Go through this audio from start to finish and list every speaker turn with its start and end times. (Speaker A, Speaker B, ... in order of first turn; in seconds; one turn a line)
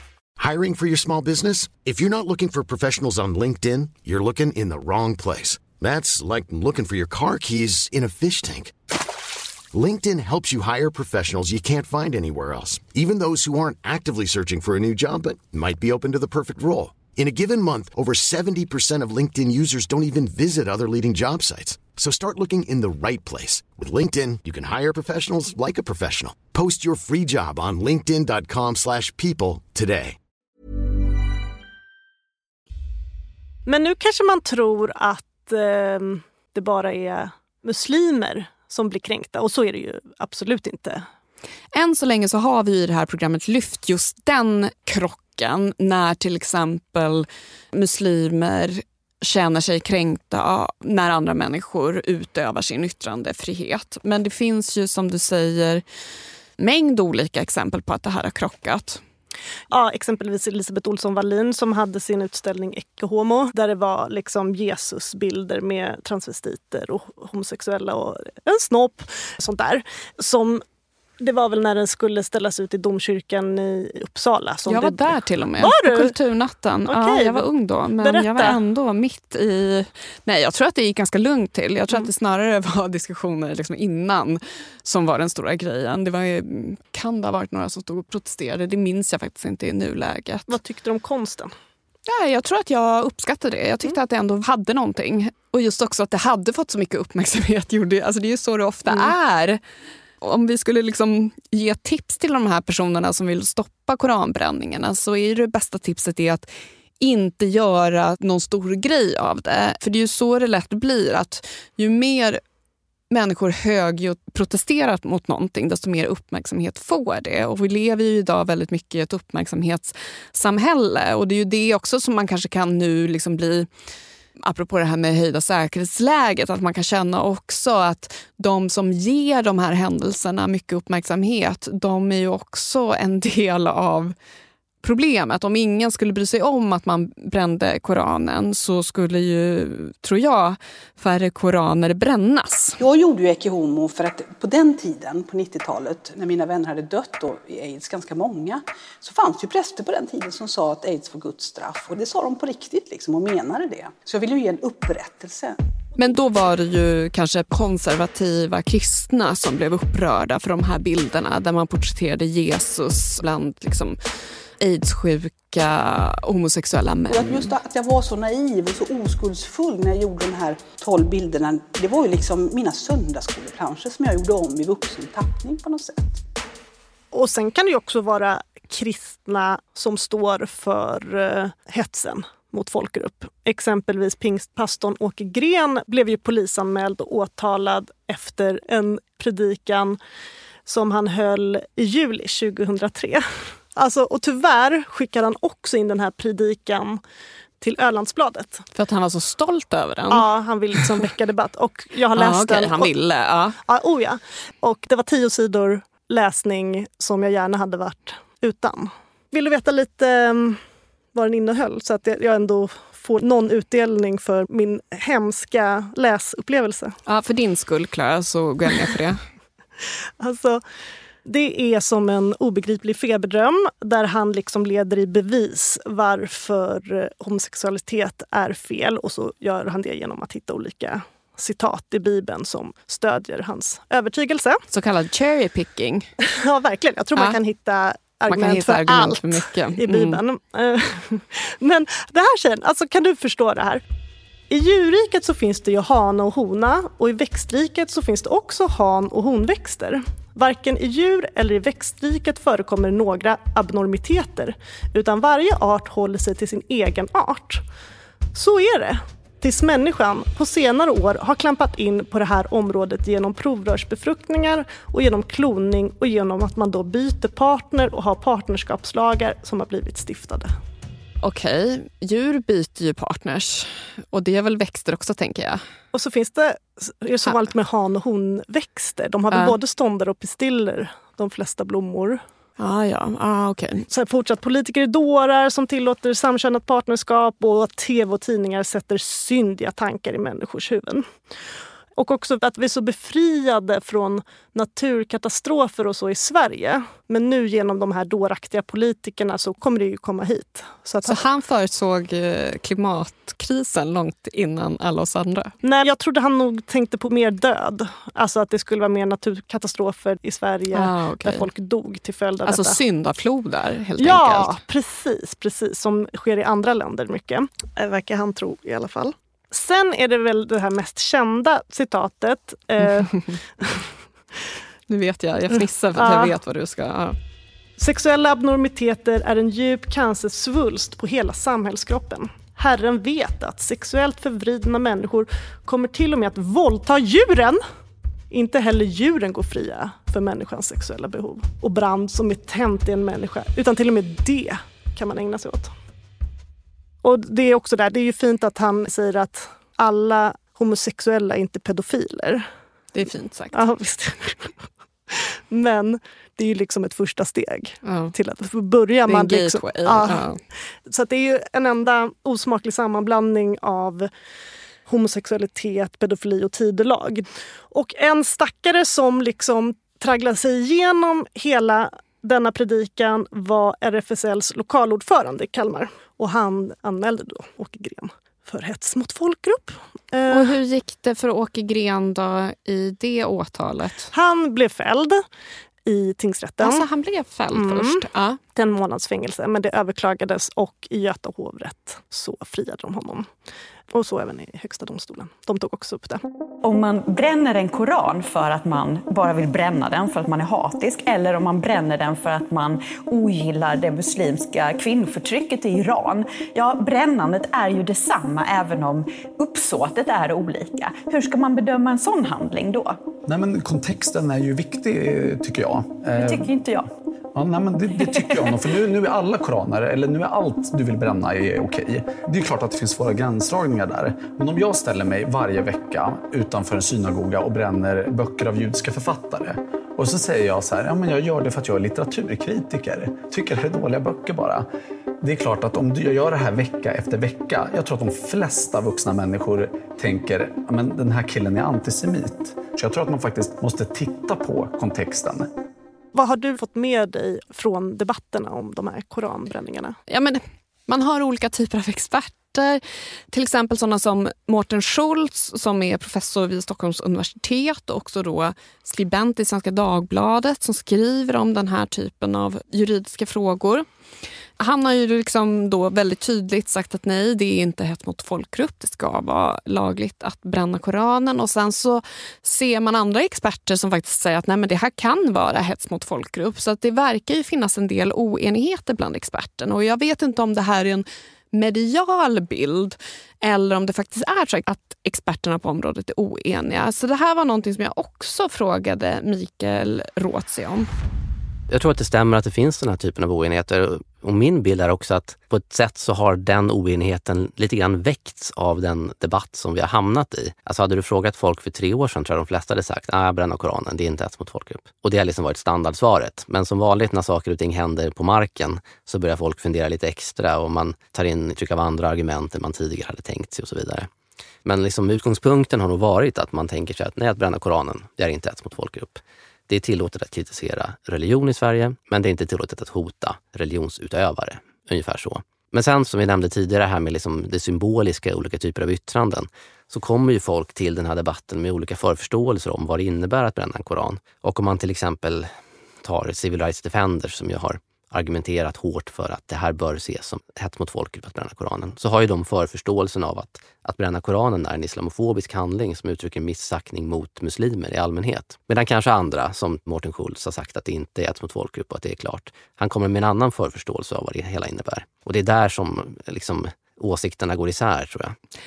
Speaker A: 0.4-8.7
Speaker A: 9.7-30.2
Speaker B: 33.6-41.0
Speaker C: 41.7-55.8
Speaker C: 56.6-59.0
Speaker B: 59.7-70.6
Speaker B: 71.2-76.1
Speaker C: 74.7-90.5
Speaker B: 76.9-77.5
Speaker B: 78.0-78.6
Speaker B: 90.5-91.5
Speaker C: 92.1-99.6
Speaker C: 100.2-106.5
Speaker C: 107.0-112.4
Speaker C: 113.1-123.7
Speaker C: 124.4-134.1
Speaker C: 134.8-142.8
Speaker D: 142.8-155.6
Speaker C: 156.0-164.0
Speaker C: 164.6-167.5
Speaker D: 167.1-176.2
Speaker B: 177.1-190.0
Speaker B: 190.7-197.0
Speaker B: 197.6-198.6
Speaker C: 198.7-200.3
Speaker B: 200.1-202.9
Speaker C: 202.2-203.6
Speaker B: 203.7-210.6
Speaker B: 211.1-216.9
Speaker C: 217.1-219.2
Speaker B: 220.2-220.6
Speaker B: 221.2-234.6
Speaker C: 234.7-236.1
Speaker B: 236.2-243.8
Speaker C: 238.3-240.2
Speaker B: 244.5-257.6
Speaker B: 258.3-270.5
Speaker C: 271.2-275.6
Speaker B: 275.9-282.2
Speaker C: 282.6-283.9
Speaker B: 283.9-291.1
Speaker B: 292.0-301.2
Speaker C: 301.0-305.5
Speaker B: 305.6-312.8
Speaker C: 310.7-311.4
Speaker C: 312.4-314.6
Speaker B: 314.0-323.8
Speaker C: 324.9-327.1
Speaker B: 325.9-326.3
Speaker B: 327.8-337.6
Speaker B: 338.3-345.7
Speaker B: 347.0-352.5
Speaker C: 352.9-353.6
Speaker B: 353.5-354.5
Speaker B: 355.1-360.2
Speaker C: 357.8-358.1
Speaker C: 359.1-360.4
Speaker B: 360.9-364.1
Speaker B: 364.9-380.5
Speaker C: 380.3-384.1
Speaker B: 384.1-385.2
Speaker B: 385.9-386.9
Speaker C: 386.6-388.4
Speaker B: 387.5-393.3
Speaker B: 393.9-396.2
Speaker E: 396.6-413.0
Speaker F: 413.3-416.6
Speaker E: 416.2-416.9
Speaker F: 417.3-434.6
Speaker E: 418.0-418.4
Speaker F: 435.2-445.5
Speaker B: 446.1-450.0
Speaker C: 450.1-452.8
Speaker C: 453.3-463.8
Speaker C: 464.6-490.9
Speaker G: 491.7-514.1
Speaker G: 514.6-535.5
Speaker G: 536.0-558.4